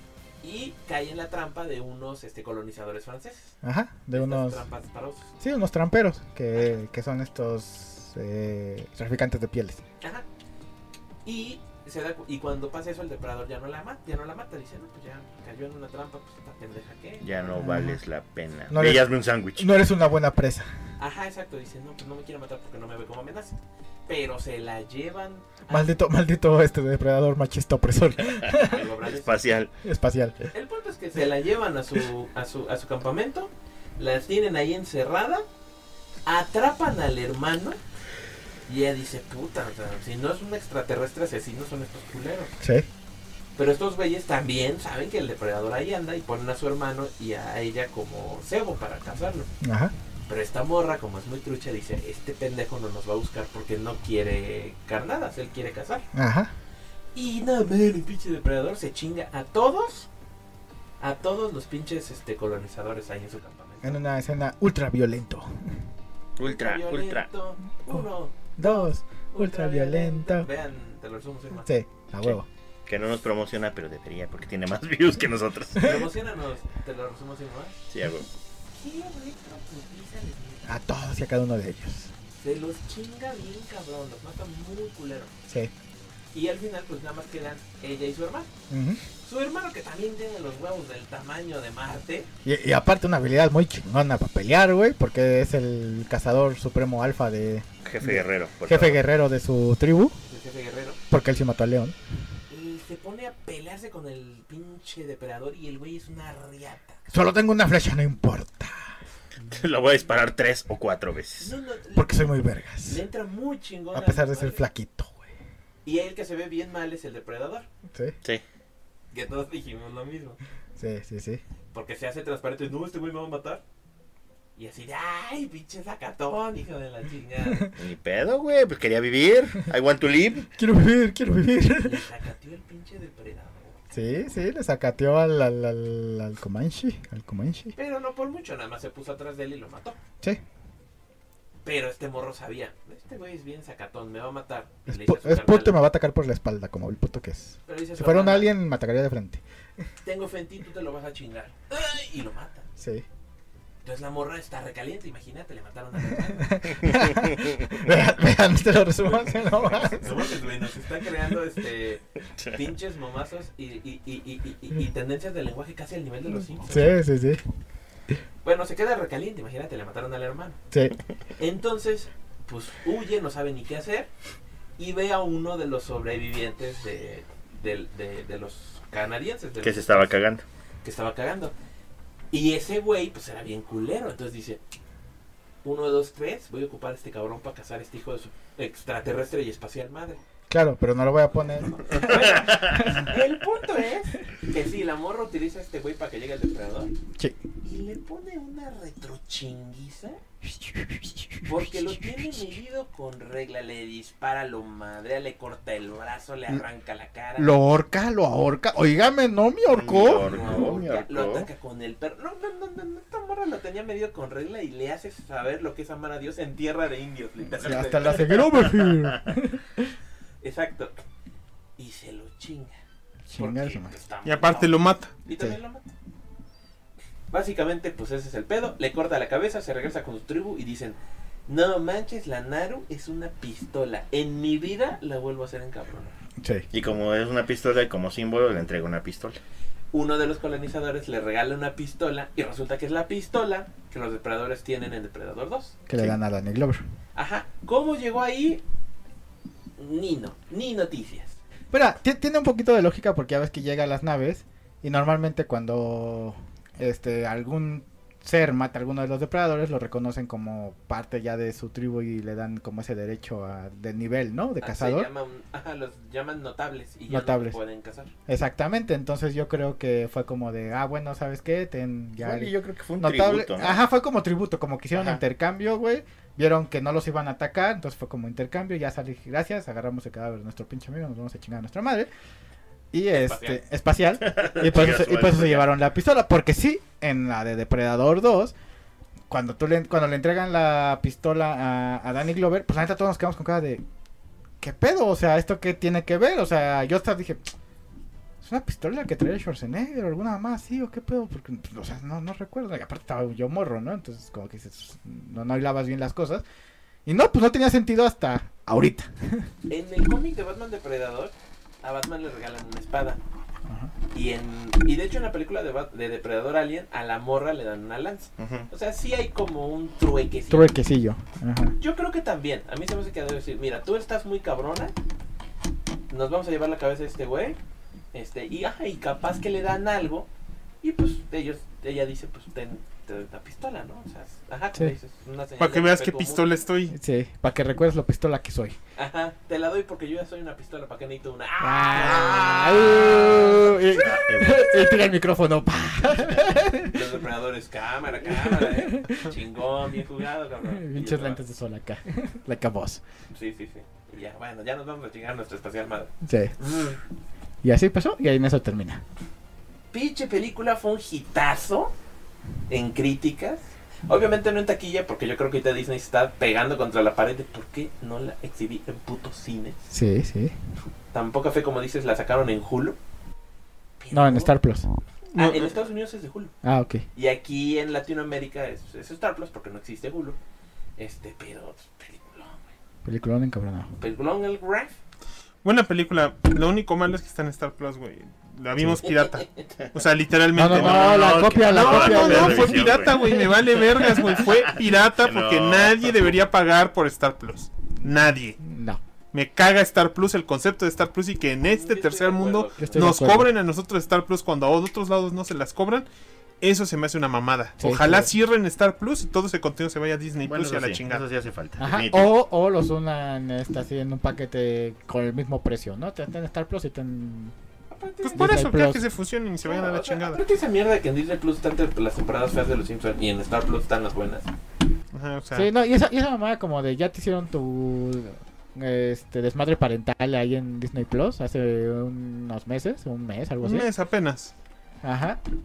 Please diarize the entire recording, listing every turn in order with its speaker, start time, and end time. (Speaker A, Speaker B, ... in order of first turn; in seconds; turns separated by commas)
Speaker A: 0.4-3.5, Speaker B: 3.6-4.7, Speaker A: 4.1-5.3, Speaker B: 5.4-9.8, Speaker A: 11.2-17.5, Speaker C: 17.2-19.7, Speaker B: 17.6-18.0, Speaker B: 18.7-20.7, Speaker A: 21.0-23.5, Speaker A: 24.1-25.9, Speaker B: 25.7-28.8, Speaker A: 28.5-29.5, Speaker C: 28.7-29.7, Speaker B: 29.8-30.5, Speaker A: 30.5-35.4, Speaker A: 36.2-37.8, Speaker A: 38.7-42.5, Speaker B: 42.6-42.9, Speaker A: 43.5-49.5, Speaker B: 49.6-49.9, Speaker A: 50.3-56.0, Speaker B: 56.1-56.5, Speaker A: 57.1-60.1, Speaker A: 61.0-64.0, Speaker B: 63.8-65.8, Speaker C: 66.4-67.3, Speaker A: 66.4-71.7, Speaker B: 68.5-70.5, Speaker B: 71.6-72.5, Speaker C: 72.9-76.0, Speaker B: 75.8-76.0, Speaker A: 75.8-77.8, Speaker C: 77.9-78.3, Speaker A: 78.7-80.7, Speaker B: 80.6-82.1, Speaker A: 82.3-85.3, Speaker A: 86.3-88.5, Speaker B: 88.7-89.0, Speaker A: 89.2-92.3, Speaker B: 92.4-100.2, Speaker C: 97.8-99.0, Speaker A: 100.3-101.0, Speaker B: 101.1-102.0, Speaker A: 102.5-107.0, Speaker B: 107.1-108.9, Speaker C: 109.5-111.5, Speaker A: 111.4-114.6, Speaker B: 111.9-113.0, Speaker B: 113.9-115.3, Speaker A: 115.8-117.7, Speaker B: 117.9-118.1, Speaker A: 119.1-120.4, Speaker B: 120.8-121.4, Speaker A: 121.7-123.6, Speaker A: 124.5-127.7, Speaker C: 127.8-130.5, Speaker B: 130.6-132.0, Speaker A: 131.8-133.8, Speaker B: 133.9-137.7, Speaker A: 137.7-140.0, Speaker A: 141.6-145.8, Speaker B: 144.9-149.4, Speaker A: 147.7-148.5, Speaker A: 150.0-152.7, Speaker B: 152.8-153.0, Speaker A: 153.8-156.7, Speaker B: 156.1-160.3, Speaker C: 156.8-157.5, Speaker A: 159.0-167.0, Speaker B: 166.6-167.4, Speaker A: 168.4-170.6, Speaker A: 171.4-174.1, Speaker A: 174.8-180.1, Speaker C: 179.6-180.4, Speaker A: 180.8-181.5, Speaker A: 182.3-184.6, Speaker A: 185.6-190.2, Speaker B: 190.5-193.1, Speaker A: 191.7-196.9, Speaker C: 192.1-193.1, Speaker A: 197.6-200.2, Speaker B: 200.6-201.4, Speaker A: 201.4-207.5, Speaker B: 207.4-210.6, Speaker C: 209.7-211.5, Speaker A: 210.1-218.5, Speaker B: 217.5-219.9, Speaker A: 220.4-220.9, Speaker A: 221.8-222.8, Speaker B: 223.2-223.9, Speaker A: 223.4-225.8, Speaker D: 224.2-225.1, Speaker A: 227.3-231.0, Speaker A: 231.5-236.1, Speaker B: 236.4-236.7, Speaker C: 236.7-239.4, Speaker A: 239.9-245.8, Speaker B: 245.9-246.8, Speaker A: 247.1-248.6, Speaker A: 249.8-251.4, Speaker B: 251.7-265.1, Speaker A: 264.6-268.1, Speaker B: 267.1-267.6, Speaker B: 268.3-282.1, Speaker C: 272.2-273.8, Speaker C: 274.9-275.2, Speaker B: 282.9-288.5, Speaker A: 283.1-283.6, Speaker C: 284.2-285.7, Speaker B: 289.3-293.8, Speaker B: 294.6-297.5, Speaker B: 298.4-306.4, Speaker B: 307.1-309.5, Speaker A: 309.7-313.2, Speaker B: 313.7-313.9, Speaker A: 314.1-320.7, Speaker C: 318.4-318.7, Speaker B: 320.5-321.8, Speaker A: 321.8-324.9, Speaker A: 326.1-327.6, Speaker A: 328.1-330.3, Speaker A: 330.8-336.4, Speaker D: 335.6-336.9, Speaker B: 336.9-338.8, Speaker A: 338.9-344.0, Speaker B: 341.6-347.1, Speaker C: 343.9-344.8, Speaker A: 346.9-351.4, Speaker B: 348.3-349.3, Speaker B: 350.6-353.0, Speaker A: 353.3-357.0, Speaker B: 356.2-356.6, Speaker B: 357.6-359.0, Speaker A: 359.9-361.9, Speaker A: 362.7-369.9, Speaker B: 369.9-370.5, Speaker A: 371.1-372.9, Speaker A: 374.0-374.5, Speaker B: 374.1-374.9, Speaker D: 375.3-375.7, Speaker A: 375.3-376.5, Speaker B: 376.6-377.0, Speaker A: 377.1-380.4, Speaker A: 381.0-382.6, Speaker B: 383.0-383.9, Speaker A: 384.0-384.9, Speaker D: 385.6-398.6, Speaker B: 390.5-393.4, Speaker C: 390.6-396.3, Speaker B: 398.0-399.0, Speaker D: 399.3-406.1, Speaker A: 401.6-403.3, Speaker B: 402.8-403.5, Speaker D: 406.6-411.2, Speaker B: 407.8-408.3, Speaker C: 410.4-412.3, Speaker B: 411.8-417.5, Speaker A: 417.9-418.6, Speaker D: 418.2-420.4, Speaker B: 418.3-419.0, Speaker A: 419.6-424.5, Speaker D: 425.1-425.7, Speaker B: 425.5-433.9, Speaker D: 433.6-434.5, Speaker B: 435.0-435.4